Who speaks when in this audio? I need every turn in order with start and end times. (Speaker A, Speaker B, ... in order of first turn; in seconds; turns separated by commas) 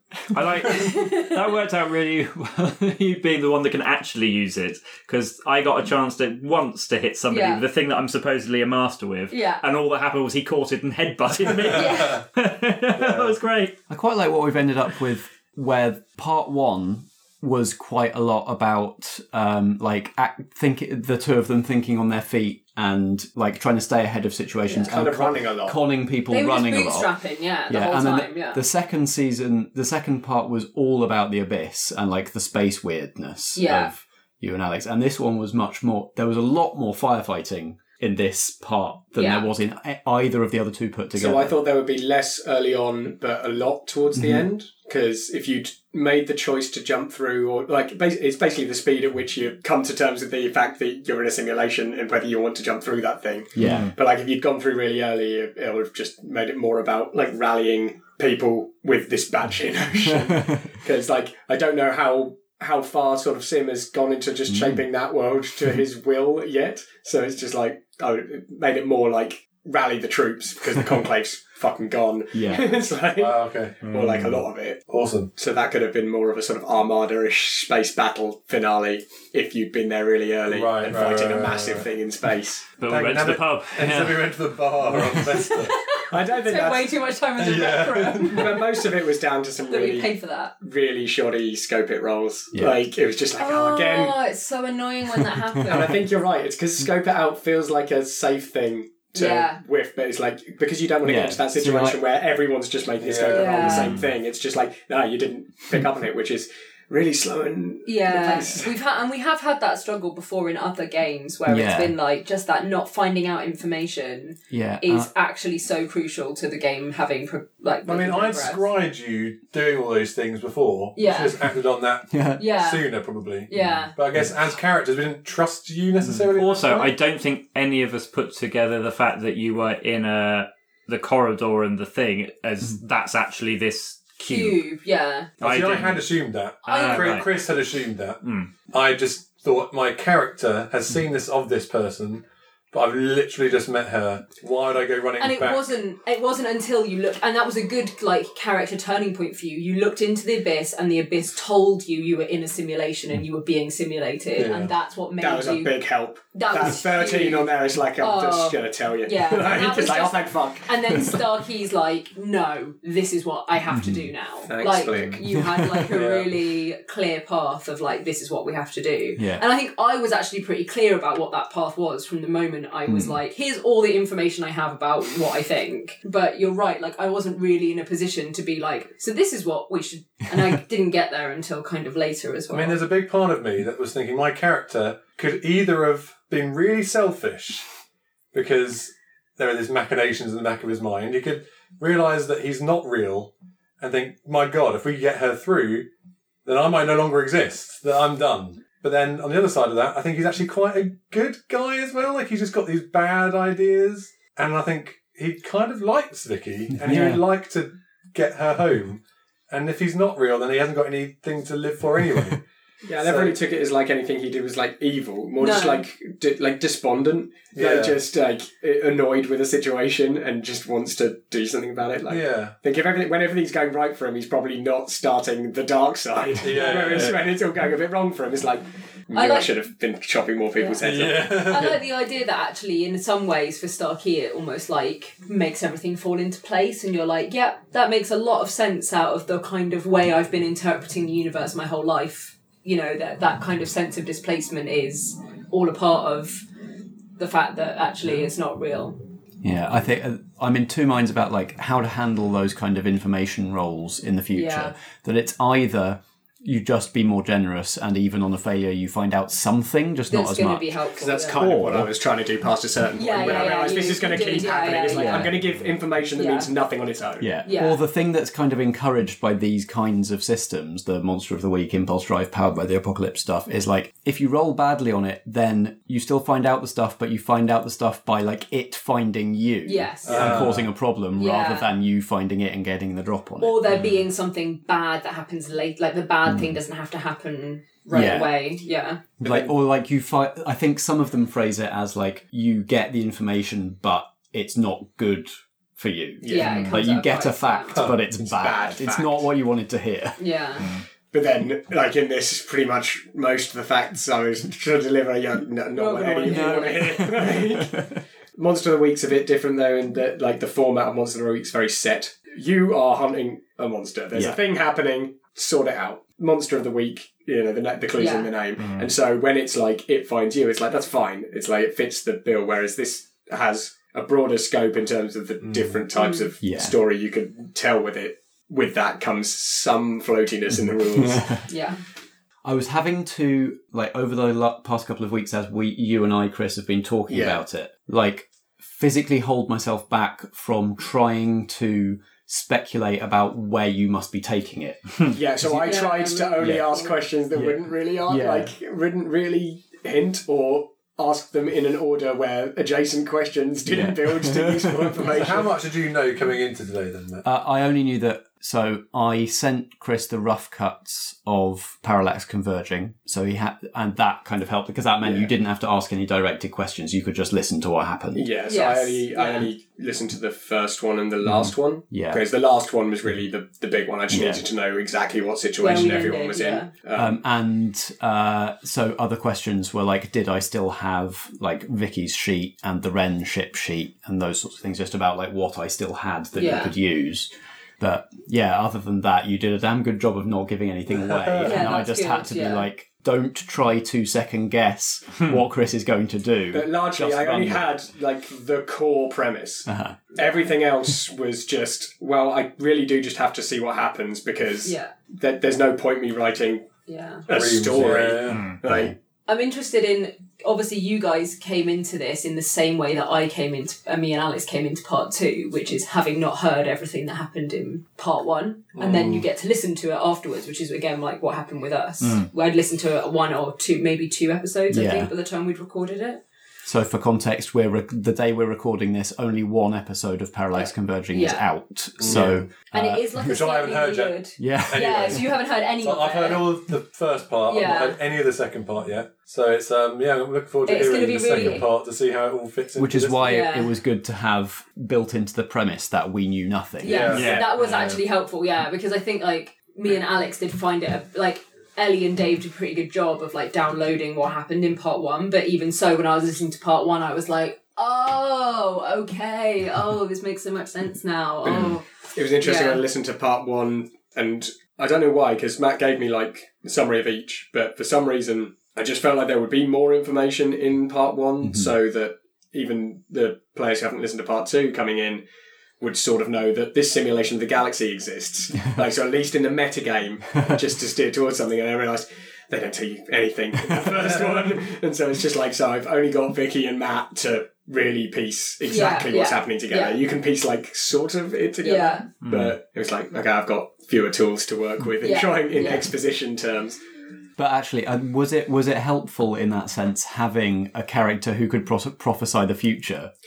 Speaker A: 0.3-13.8, Speaker B: 0.7-1.4, Speaker B: 7.3-7.6, Speaker B: 9.3-9.6, Speaker B: 11.7-12.2, Speaker C: 12.9-13.3, Speaker D: 13.9-27.1, Speaker B: 24.7-24.9, Speaker E: 24.8-25.8, Speaker B: 26.3-28.6, Speaker D: 27.7-41.5, Speaker B: 33.5-33.9, Speaker B: 39.1-39.5, Speaker E: 41.1-74.8, Speaker D: 44.1-44.5, Speaker D: 53.5-53.9, Speaker A: 53.6-53.9, Speaker D: 60.2-60.6, Speaker D: 64.5-64.8, Speaker D: 72.3-72.7, Speaker C: 73.2-73.8, Speaker A: 73.8-74.4, Speaker C: 74.9-75.3, Speaker E: 75.3-82.7, Speaker C: 80.5-81.9, Speaker A: 82.8-84.3, Speaker C: 82.8-85.8, Speaker B: 85.3-88.9, Speaker E: 86.1-87.0, Speaker C: 87.4-88.5, Speaker E: 88.2-94.2, Speaker B: 89.7-90.5, Speaker D: 92.5-92.8, Speaker B: 93.4-96.0, Speaker E: 95.6-108.7, Speaker B: 99.1-99.6, Speaker D: 101.0-102.0, Speaker C: 103.0-103.9, Speaker B: 103.3-103.9, Speaker B: 107.8-118.7, Speaker D: 111.5-111.9, Speaker D: 114.5-115.1, Speaker C: 117.8-127.0, Speaker B: 121.0-121.5, Speaker D: 122.1-122.4, Speaker B: 122.4-123.9, Speaker A: 126.3-134.6, Speaker B: 134.2-135.3, Speaker C: 135.4-145.7, Speaker A: 135.4-136.1, Speaker B: 136.6-137.3, Speaker A: 136.6-137.2, Speaker A: 138.2-138.5, Speaker B: 145.2-155.7, Speaker C: 154.3-154.7, Speaker E: 155.2-161.2, Speaker B: 156.3-182.8, Speaker D: 163.7-164.1, Speaker E: 164.5-165.2, Speaker D: 165.2-165.9, Speaker C: 165.9-166.3, Speaker D: 169.2-169.4, Speaker D: 172.9-173.2, Speaker C: 182.5-187.6, Speaker C: 188.3-195.9, Speaker C: 196.4-212.4, Speaker D: 206.8-207.2, Speaker E: 212.8-231.5, Speaker C: 213.0-213.4, Speaker B: 215.4-215.8, Speaker C: 217.5-218.0, Speaker C: 222.1-222.6, Speaker C: 226.4-227.2, Speaker B: 229.1-229.5, Speaker B: 230.6-246.4, Speaker C: 230.8-231.8, Speaker B: 247.2-249.0, Speaker D: 249.4-261.9, Speaker B: 254.3-254.7, Speaker B: 260.1-261.5, Speaker E: 261.0-267.3, Speaker B: 262.9-265.3, Speaker D: 264.9-265.3, Speaker B: 266.1-266.5, Speaker D: 267.2-283.6, Speaker B: 267.4-267.8, Speaker B: 279.6-280.5, Speaker C: 280.0-280.7, Speaker B: 281.1-281.7, Speaker B: 283.4-289.0, Speaker D: 286.3-286.5, Speaker D: 287.9-288.3, Speaker E: 289.2-289.5, Speaker D: 289.2-300.2, Speaker E: 296.2-296.7, Speaker B: 296.2-297.9, Speaker E: 298.1-299.3, Speaker B: 300.2-300.7, Speaker E: 301.1-331.4, Speaker B: 305.7-307.2, Speaker D: 306.2-307.8, Speaker D: 314.1-314.4, Speaker B: 317.9-318.3, Speaker A: 318.6-318.9, Speaker C: 325.4-325.7, Speaker B: 325.9-326.3, Speaker D: 326.4-326.8, Speaker B: 331.5-331.8, Speaker D: 332.4-345.8, Speaker E: 337.1-337.4, Speaker E: 345.1-355.6, Speaker B: 345.6-346.9, Speaker D: 346.4-346.7, Speaker D: 347.3-348.5, Speaker D: 353.6-355.1, Speaker C: 355.1-357.2, Speaker D: 357.2-368.3, Speaker E: 365.0-365.3, Speaker E: 368.1-377.2, Speaker B: 368.5-369.5, Speaker D: 371.2-372.2, Speaker D: 374.1-374.4, Speaker B: 375.6-376.7, Speaker D: 376.9-387.3, Speaker B: 386.4-386.7, Speaker D: 387.8-397.7, Speaker C: 391.0-391.6, Speaker B: 391.4-392.7, Speaker E: 396.5-406.7, Speaker D: 399.7-400.0, Speaker B: 404.6-404.9, Speaker B: 406.9-407.2, Speaker E: 407.3-408.9, Speaker C: 407.3-408.5, Speaker A: 408.3-408.6, Speaker D: 408.6-408.9, Speaker B: 409.3-426.2, Speaker C: 418.7-419.2, Speaker A: 422.0-422.3, Speaker D: 424.7-425.1, Speaker D: 426.6-433.2, Speaker B: 430.6-431.4, Speaker C: 432.0-432.5, Speaker B: 432.7-436.6, Speaker C: 433.1-443.2, Speaker D: 434.4-435.1, Speaker B: 437.4-438.0, Speaker B: 440.6-441.7, Speaker D: 442.8-447.3, Speaker B: 443.2-443.7, Speaker B: 446.8-461.9, Speaker C: 446.8-447.5, Speaker A: 447.1-448.0, Speaker E: 461.4-475.2, Speaker B: 462.4-462.8, Speaker D: 471.4-471.7, Speaker E: 475.8-496.8, Speaker C: 484.1-484.4, Speaker B: 488.6-490.0, Speaker B: 491.6-492.1, Speaker A: 492.2-492.5, Speaker B: 495.0-495.9, Speaker D: 497.4-503.1